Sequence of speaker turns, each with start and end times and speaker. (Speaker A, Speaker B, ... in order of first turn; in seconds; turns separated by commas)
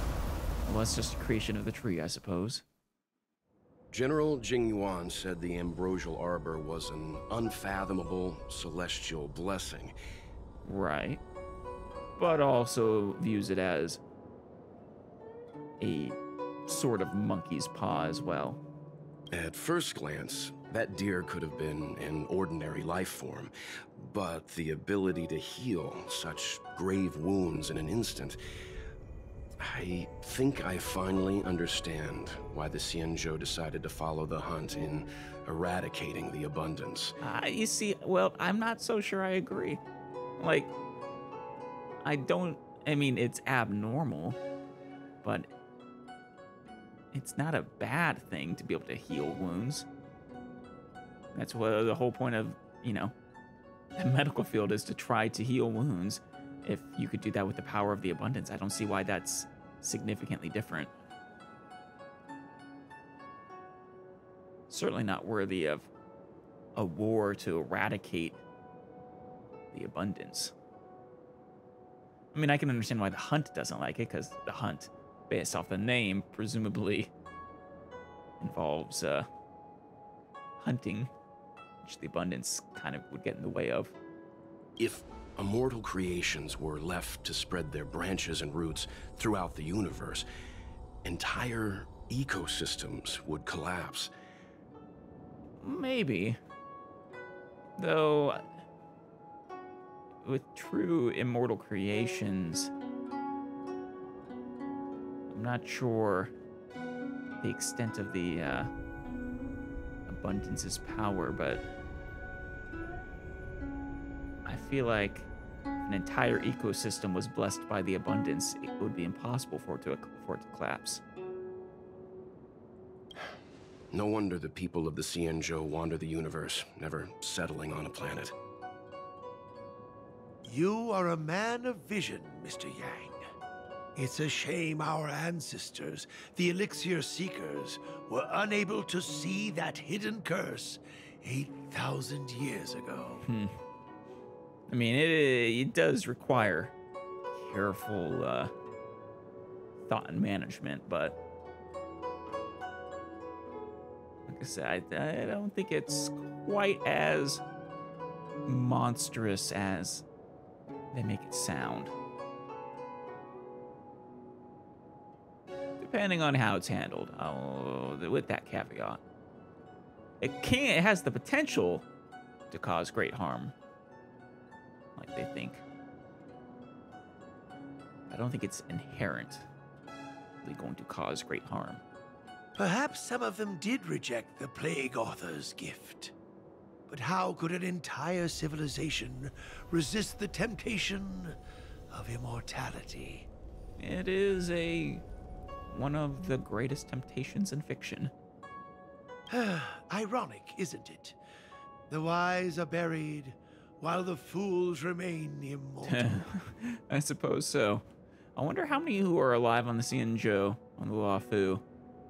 Speaker A: 0.6-2.6, Speaker B: 3.9-9.9, Speaker A: 10.6-11.2, Speaker A: 12.2-14.0, Speaker A: 15.8-18.6, Speaker B: 19.3-28.4, Speaker B: 29.6-37.1, Speaker A: 37.2-39.8, Speaker A: 40.4-40.7, Speaker A: 42.0-44.4, Speaker A: 47.1-49.9, Speaker A: 51.3-53.1, Speaker A: 54.0-60.9, Speaker A: 64.7-65.9, Speaker A: 66.8-68.4, Speaker A: 69.7-70.5, Speaker A: 72.3-77.1, Speaker A: 78.4-79.3, Speaker A: 80.6-81.1, Speaker A: 81.8-83.9, Speaker B: 84.8-90.2, Speaker B: 91.0-94.1, Speaker A: 95.6-96.4, Speaker A: 97.8-98.4, Speaker A: 100.2-102.7, Speaker A: 105.3-106.3, Speaker A: 107.4-108.7, Speaker A: 110.1-111.6, Speaker A: 114.4-115.3, Speaker A: 115.8-121.0, Speaker B: 123.9-128.3, Speaker C: 130.4-133.2, Speaker C: 133.9-143.2, Speaker A: 143.2-143.5, Speaker A: 144.7-146.7, Speaker A: 147.3-148.5, Speaker A: 149.9-151.2, Speaker A: 154.3-157.4, Speaker A: 158.4-160.0, Speaker A: 160.9-161.9, Speaker A: 165.8-169.0, Speaker A: 170.2-171.8, Speaker A: 172.5-173.5, Speaker A: 174.9-175.6, Speaker A: 178.1-179.5, Speaker A: 180.4-181.8, Speaker C: 182.6-186.1, Speaker C: 186.9-191.3, Speaker C: 191.9-193.3, Speaker A: 193.8-195.0, Speaker A: 195.7-198.1, Speaker C: 199.3-201.2, Speaker C: 201.9-206.2, Speaker A: 205.8-211.6